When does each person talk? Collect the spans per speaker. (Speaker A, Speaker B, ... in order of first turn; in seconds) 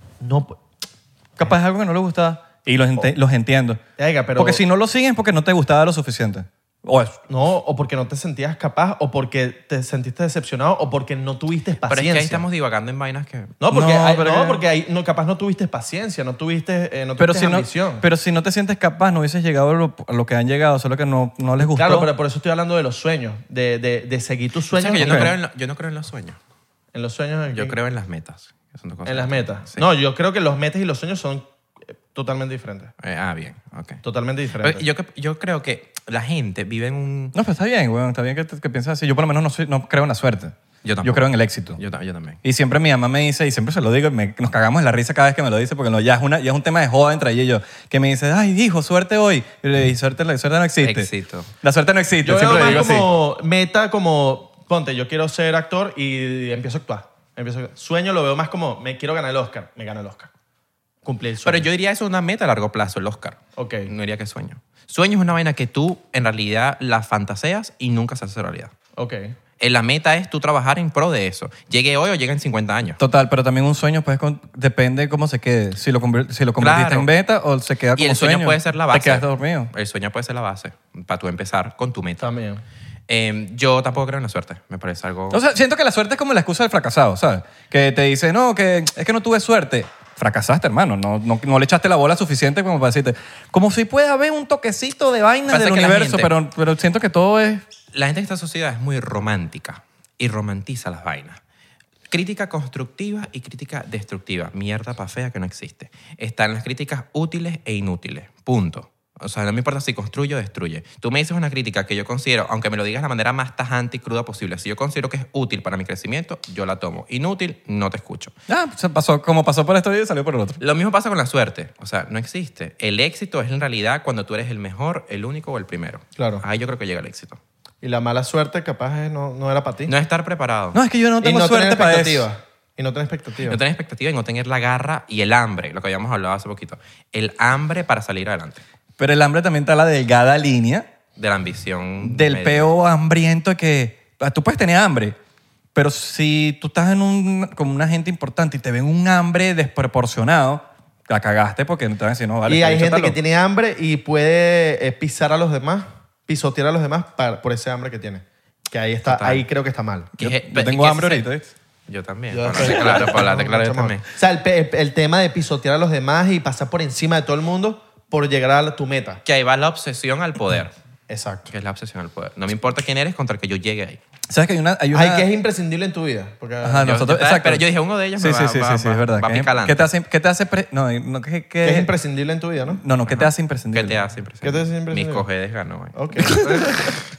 Speaker A: 0.2-0.6, 4.0-4.6, 7.3-12.4, 13.6-18.0, 21.6-25.3, 26.9-27.8, 29.1-32.9, 34.0-34.8, 52.2-60.3, 61.0-61.7, 63.6-63.9, 69.0-69.3, 82.2-82.6, 126.2-126.4, 127.8-129.9, 131.2-133.6, 152.4-160.1, 162.3-169.2, 171.1-171.5, 174.9-176.9, 181.6-182.8, 184.4-185.3, 185.9-186.5
Speaker B: 1.4-3.8, 4.4-7.2, 13.7-14.6, 17.2-22.1, 25.0-25.3, 37.4-41.8, 42.4-51.1, 51.6-53.1, 73.0-79.7, 85.3-97.7, 118.5-120.6, 130.7-132.3, 139.0-140.9, 142.0-145.2, 145.7-153.2, 160.2-161.5, 174.3-175.3, 176.6-177.7, 178.2-181.9, 182.8-184.0, 186.2-186.9
Speaker C: 11.9-13.6, 24.7-26.4, 27.5-29.9, 33.0-34.0, 34.6-37.4, 40.8-42.4, 50.8-51.5, 61.5-68.7, 69.6-73.0, 76.6-77.1, 78.0-82.3, 83.1-85.4, 95.5-96.3, 97.9-101.4, 102.1-118.3, 120.6-127.4, 129.9-130.8, 133.4-138.6, 141.2-142.7, 159.1-159.5, 160.2-161.3, 161.9-164.1, 169.2-170.7, 171.5-174.0, 176.8-179.9, 183.1-186.9